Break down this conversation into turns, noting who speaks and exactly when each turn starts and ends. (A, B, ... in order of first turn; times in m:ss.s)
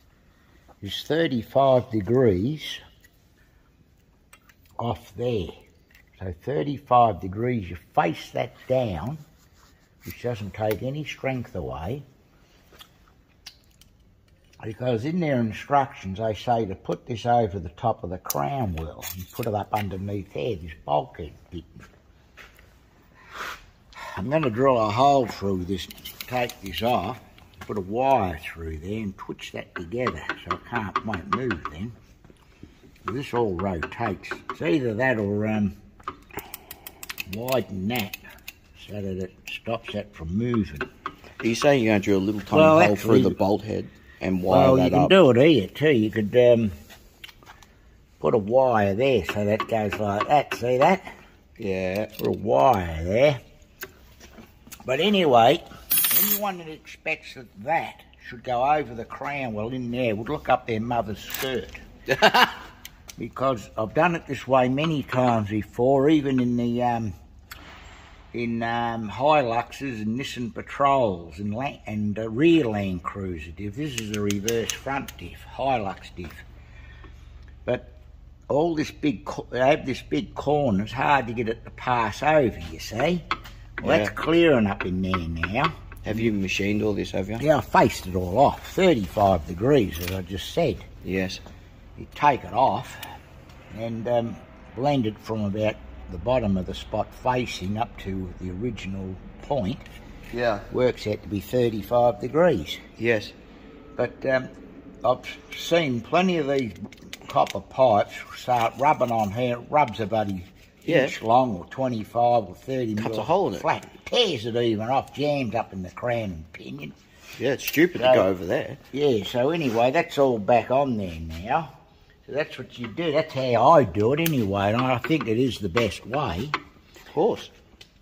0:00.8-0:02.8 A
0:04.8-0:05.6 A
0:06.2-0:09.2 A
0:10.0-0:12.0 A
0:14.6-0:21.8 A
0:24.0-0:32.0 A
0:33.0-0:35.7 A
0:37.3-0:38.2 A
0:38.8-0:40.9 A
0:41.4-0:45.1 B
0:42.5-0:43.4 A
0:44.5-0:46.7 A
0:48.2-0:51.1 A
0:51.6-0:52.1 B
0:52.2-0:53.4 A
0:54.8-1:01.8 A
1:02.2-1:02.5 B
1:03.2-1:07.1 A
1:08.3-1:16.4 A
1:17.6-1:17.9 A
1:18.5-1:23.3 A
1:23.8-1:25.7 A
1:23.8-1:24.1 B
1:26.0-1:27.4 B
1:27.4-1:30.9 A
1:31.0-1:31.4 B
1:32.0-1:33.0 A
1:33.7-1:39.9 A
1:40.3-1:40.7 B
1:40.7-1:42.8 A
1:43.0-1:43.3 B
1:44.0-1:44.5 A
1:45.0-1:57.0 A
1:50.8-1:51.1 B
1:53.0-1:53.7 B
1:57.4-1:58.8 B
1:58.0-1:58.3 A
1:58.9-2:01.7 A
2:02.2-2:06.6 A
2:07.1-2:07.5 B